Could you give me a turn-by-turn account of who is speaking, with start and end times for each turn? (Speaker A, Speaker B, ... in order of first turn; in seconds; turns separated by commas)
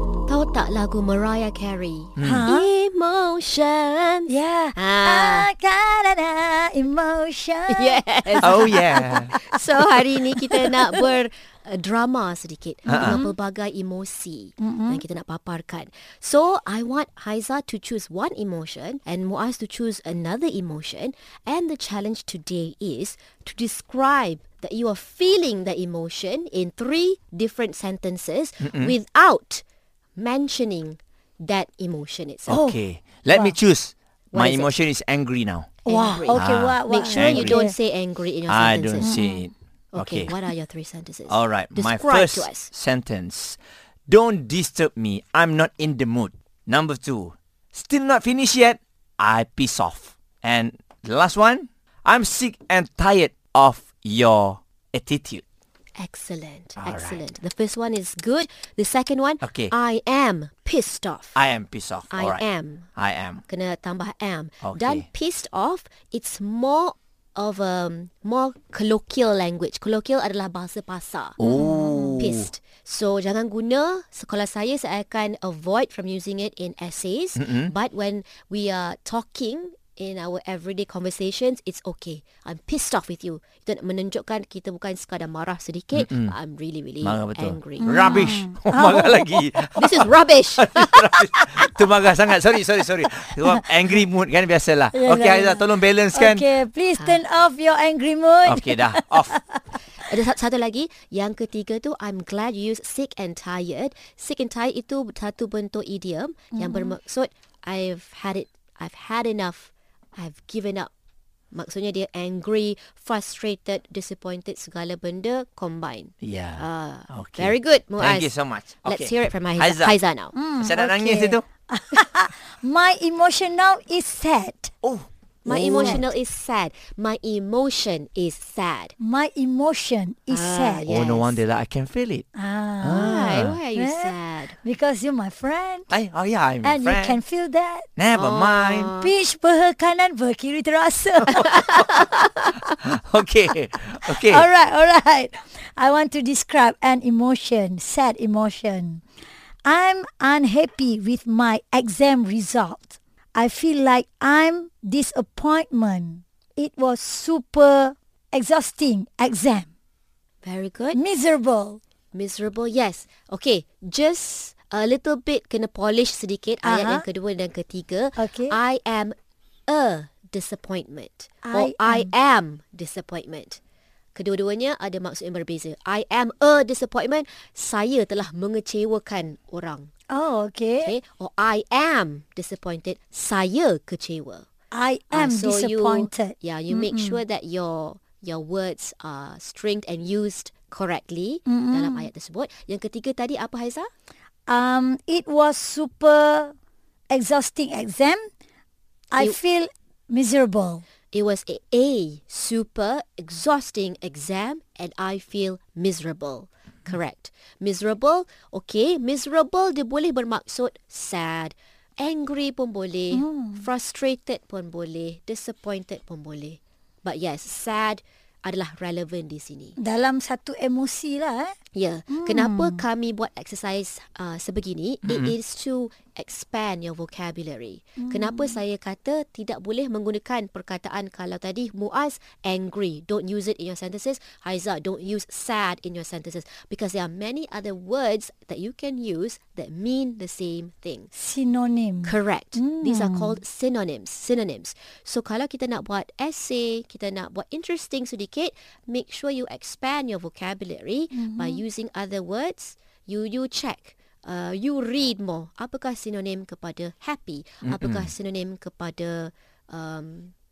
Speaker A: 0.3-5.5, Speaker B: 2.2-2.5, Speaker C: 2.2-2.7, Speaker C: 4.3-9.3, Speaker A: 7.7-29.6, Speaker B: 8.4-9.3, Speaker C: 12.9-13.3, Speaker B: 12.9-13.2, Speaker C: 14.6-15.0, Speaker B: 28.6-28.9, Speaker A: 30.2-32.6, Speaker B: 32.5-35.8, Speaker C: 32.5-32.8, Speaker C: 33.3-33.6, Speaker A: 34.3-34.8, Speaker C: 35.9-37.8, Speaker A: 35.9-39.2, Speaker B: 36.3-37.6, Speaker B: 38.5-40.4, Speaker C: 39.0-39.5, Speaker A: 39.9-42.7, Speaker B: 41.3-55.4, Speaker A: 56.0-61.4, Speaker B: 56.8-57.2, Speaker B: 59.4-59.7, Speaker B: 61.4-62.4, Speaker A: 62.1-62.9, Speaker B: 63.0-63.4, Speaker A: 63.5-71.6, Speaker B: 64.6-65.1, Speaker B: 71.4-72.5, Speaker C: 71.4-72.1, Speaker A: 72.2-88.4, Speaker B: 77.4-77.7, Speaker B: 86.0-86.3, Speaker B: 87.0-96.5, Speaker C: 87.8-89.4, Speaker A: 89.8-91.5, Speaker C: 94.9-99.8, Speaker B: 98.5-99.4, Speaker A: 100.0-110.9, Speaker C: 106.5-106.9, Speaker A: 111.5-120.4, Speaker B: 116.2-120.0, Speaker C: 120.3-124.7, Speaker B: 120.6-121.5, Speaker B: 124.8-125.9, Speaker A: 125.5-128.9, Speaker C: 125.7-126.0, Speaker C: 129.0-130.9, Speaker A: 130.3-131.4, Speaker B: 130.9-132.3, Speaker C: 132.3-135.9, Speaker B: 132.8-133.6, Speaker A: 132.9-134.6, Speaker B: 135.9-137.2, Speaker C: 136.6-137.9, Speaker B: 138.0-138.9, Speaker A: 138.1-139.1, Speaker C: 139.0-141.7, Speaker A: 141.4-141.9, Speaker B: 142.7-144.5, Speaker C: 144.1-149.0, Speaker C: 149.7-159.7, Speaker A: 160.4-161.0, Speaker C: 160.9-161.8, Speaker A: 162.1-169.1, Speaker C: 166.6-167.1, Speaker C: 168.2-168.6, Speaker A: 169.7-173.6, Speaker C: 171.4-172.1, Speaker A: 174.2-179.9, Speaker C: 180.1-180.9, Speaker A: 180.8-184.5, Speaker C: 184.7-187.2, Speaker A: 185.1-193.9, Speaker C: 191.5-192.1, Speaker C: 194.5-196.6, Speaker C: 197.1-198.3, Speaker C: 199.1-200.8, Speaker A: 201.1-219.8, Speaker C: 213.1-213.7, Speaker C: 219.8-221.6, Speaker A: 221.7-241.1, Speaker C: 222.1-222.8, Speaker C: 228.0-228.6, Speaker C: 241.1-243.4, Speaker A: 242.0-260.3, Speaker C: 251.2-251.6, Speaker B: 257.6-258.1